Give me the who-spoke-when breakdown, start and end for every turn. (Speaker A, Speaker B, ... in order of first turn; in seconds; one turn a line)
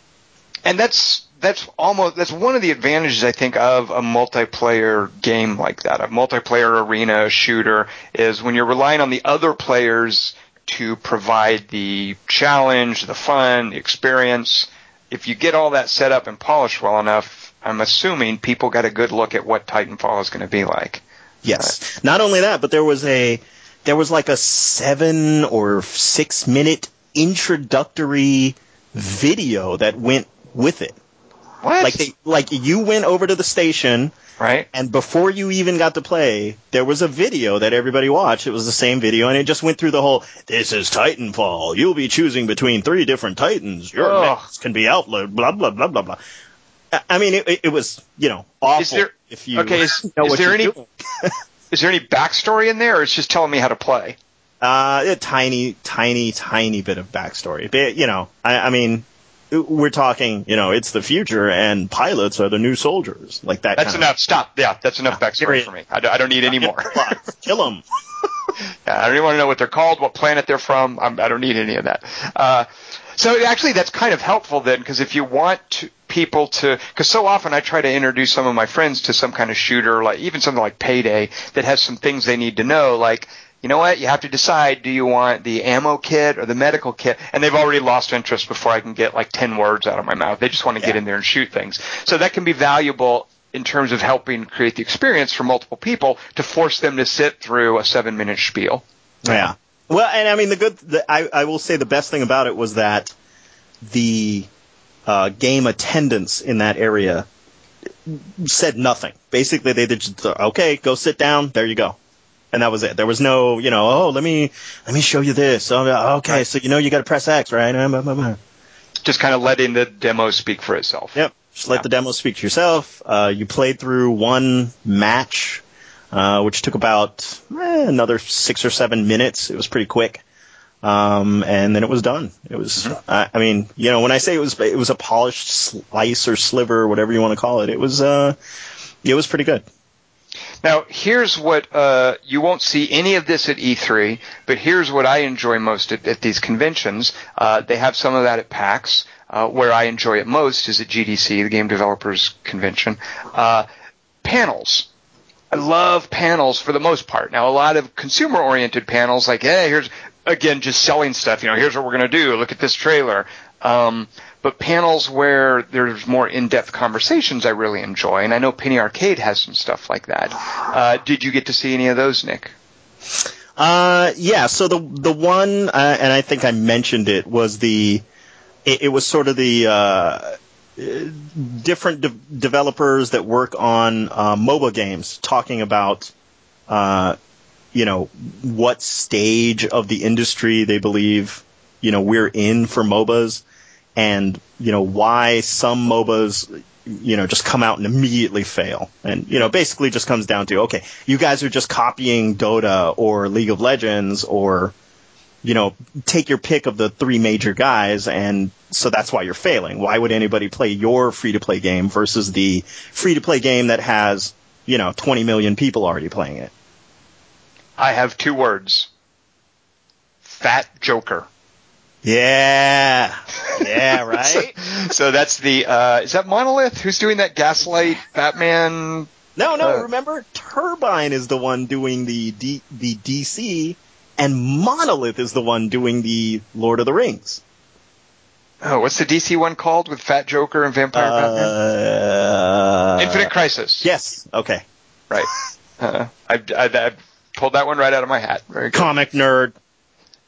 Speaker A: 0.7-21.0
Speaker B: 21.4-31.0
Speaker A: 31.6-32.1
Speaker B: 31.8-34.1
Speaker A: 34.4-34.6
Speaker B: 34.7-46.2
Speaker A: 44.0-44.5
Speaker B: 46.9-51.3
Speaker A: 48.8-50.7
Speaker A: 51.7-54.1
Speaker B: 54.6-64.1
Speaker A: 63.8-67.1
Speaker B: 65.4-65.7
Speaker B: 66.5-67.8
Speaker A: 68.8-99.5
Speaker B: 99.2-103.1
Speaker B: 103.8-104.5
Speaker B: 105.1-107.2
Speaker B: 108.0-112.0
Speaker B: 112.5-118.4
Speaker A: 119.0-121.2
Speaker B: 121.1-130.2
Speaker B: 130.8-138.3
Speaker B: 139.0-139.7
Speaker A: 140.6-153.6
Speaker A: 154.2-154.9
Speaker A: 155.5-172.5
Speaker B: 173.6-178.0
Speaker B: 178.7-186.1
Speaker B: 186.7-187.2
Speaker B: 187.7-193.4
Speaker B: 193.9-204.7
Speaker B: 205.4-216.5
Speaker A: 217.8-218.9
Speaker A: 220.2-221.3
Speaker B: 222.0-224.5
Speaker A: 223.5-229.1
Speaker B: 229.3-237.4
Speaker A: 229.6-229.8
Speaker A: 238.6-241.5
Speaker B: 240.9-243.3
Speaker A: 243.0-243.9
Speaker B: 243.8-244.6
Speaker A: 245.8-248.8
Speaker B: 248.7-249.5